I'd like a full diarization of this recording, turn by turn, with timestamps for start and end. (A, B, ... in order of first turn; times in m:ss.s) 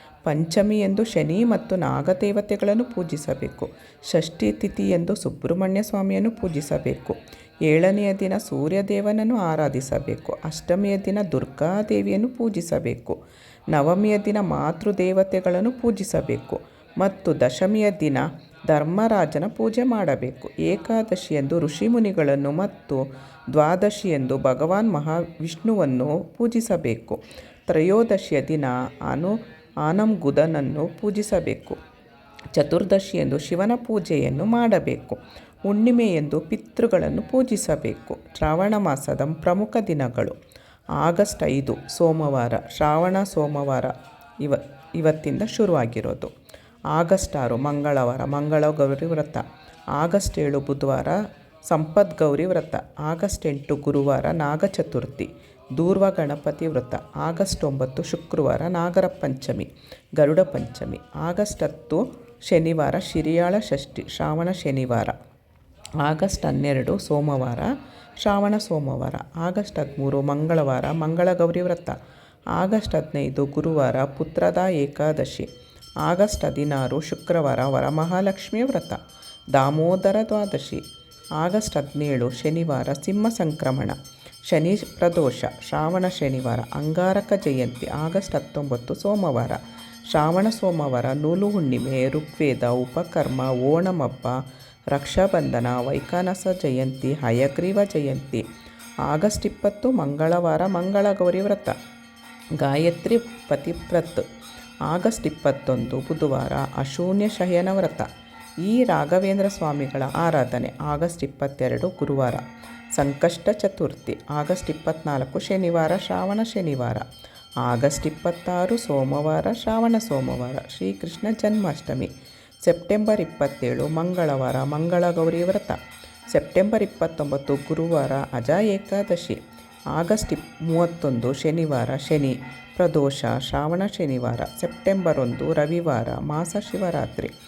0:00.2-0:13.2 A
0:13.7-0:31.8 A
0:32.5-0:40.4 A
0:41.0-0:46.3 A
0:46.9-0:49.4 A
0:50.0-1:05.2 A
1:06.0-1:12.0 A
1:12.5-1:15.5 A
1:16.0-1:19.0 A
1:19.5-1:20.8 A
1:21.4-1:24.0 A
1:24.5-1:34.4 A
1:34.9-1:38.4 A
1:39.0-1:41.7 A
1:42.6-1:44.2 A
1:44.9-1:48.1 A
1:48.6-1:52.4 A
1:52.9-1:57.0 A
1:57.6-2:02.1 A
2:02.6-2:05.8 A
2:06.3-2:09.4 A
2:09.9-2:17.3 A